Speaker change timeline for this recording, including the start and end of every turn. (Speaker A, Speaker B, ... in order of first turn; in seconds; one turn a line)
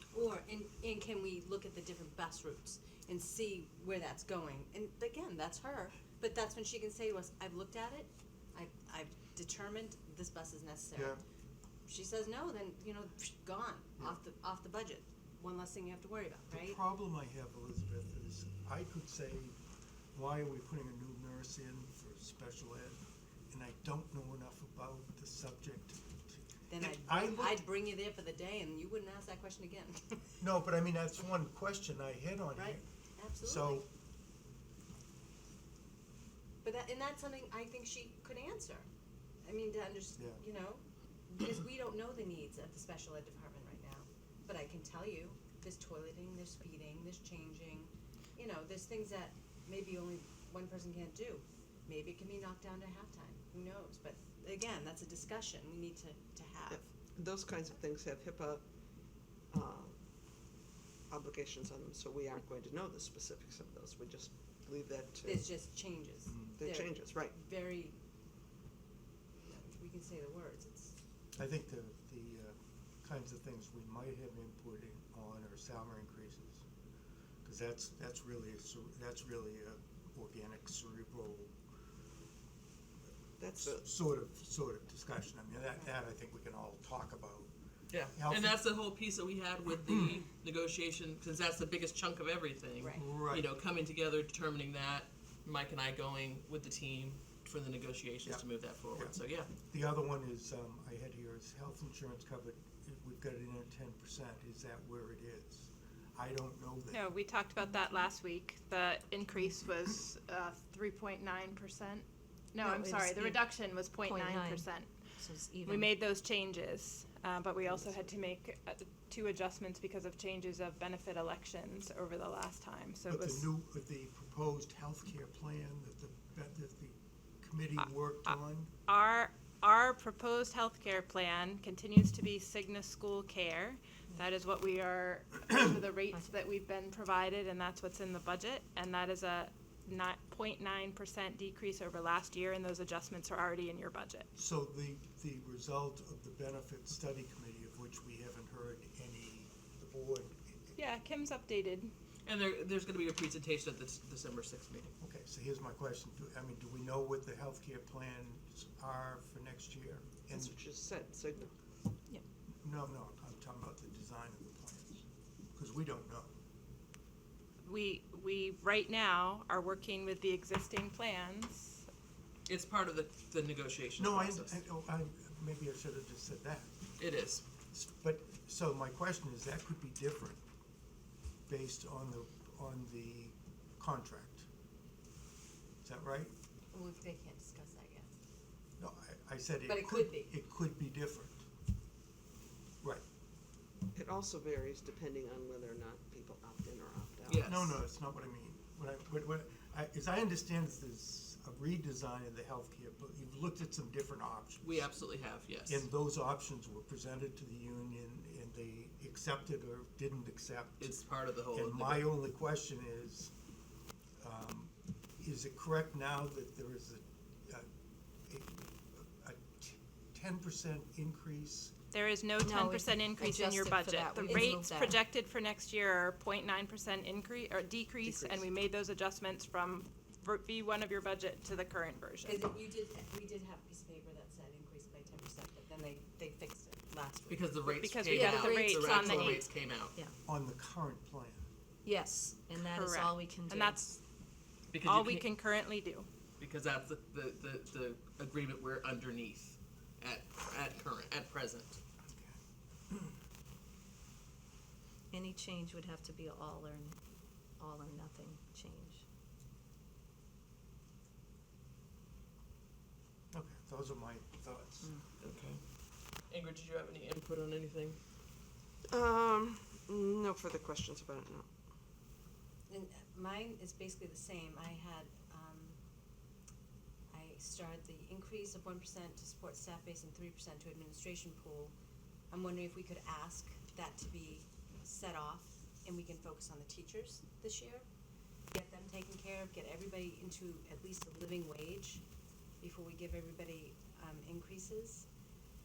Speaker A: 0.1-11.2
Speaker B: 10.9-11.2
Speaker A: 11.9-16.8
Speaker B: 16.5-19.6
Speaker B: 20.1-27.6
Speaker A: 26.7-30.3
Speaker B: 30.4-32.8
Speaker A: 32.5-33.8
Speaker B: 33.4-33.9
Speaker A: 36.6-38.9
Speaker A: 39.4-56.8
Speaker C: 56.7-58.6
Speaker C: 59.5-60.0
Speaker C: 61.1-65.5
Speaker A: 65.2-68.0
Speaker B: 66.3-66.6
Speaker C: 66.6-67.3
Speaker A: 69.4-70.9
Speaker B: 71.4-76.6
Speaker B: 77.4-81.5
Speaker C: 83.4-83.8
Speaker B: 83.6-87.5
Speaker D: 87.9-99.5
Speaker B: 88.1-88.6
Speaker B: 93.0-93.5
Speaker B: 98.2-107.0
Speaker E: 106.9-115.0
Speaker F: 113.0-113.3
Speaker F: 114.1-114.6
Speaker F: 115.2-115.9
Speaker E: 115.7-123.4
Speaker B: 123.1-128.7
Speaker E: 128.9-144.3
Speaker B: 144.3-150.8
Speaker E: 150.8-151.9
Speaker D: 152.2-154.9
Speaker B: 155.0-160.5
Speaker C: 160.3-161.5
Speaker B: 162.6-166.3
Speaker E: 167.6-171.8
Speaker D: 172.5-174.6
Speaker B: 174.0-176.7
Speaker D: 177.0-177.4
Speaker B: 177.7-180.4
Speaker B: 181.5-184.5
Speaker B: 185.8-186.3
Speaker A: 186.7-188.1
Speaker B: 188.8-191.4
Speaker A: 189.7-190.3
Speaker C: 193.9-197.4
Speaker D: 197.3-197.8
Speaker B: 197.4-204.9
Speaker D: 204.6-205.9
Speaker B: 205.7-210.9
Speaker D: 210.8-212.2
Speaker B: 211.5-213.3
Speaker B: 214.2-217.7
Speaker B: 218.3-221.7
Speaker E: 221.9-232.4
Speaker F: 222.4-224.9
Speaker C: 228.0-228.4
Speaker A: 232.2-237.8
Speaker D: 237.3-239.9
Speaker E: 237.8-239.4
Speaker F: 238.5-239.3
Speaker B: 240.2-241.4
Speaker F: 241.8-243.8
Speaker E: 242.6-244.0
Speaker D: 244.7-245.3
Speaker E: 244.8-246.1
Speaker D: 246.4-251.8
Speaker B: 252.1-252.3
Speaker F: 255.1-257.0
Speaker F: 257.6-259.0
Speaker B: 263.3-264.9
Speaker D: 265.2-268.0
Speaker C: 268.9-271.5
Speaker A: 272.7-275.8
Speaker A: 277.1-281.7
Speaker A: 282.3-287.8
Speaker A: 288.5-292.0
Speaker A: 292.6-295.1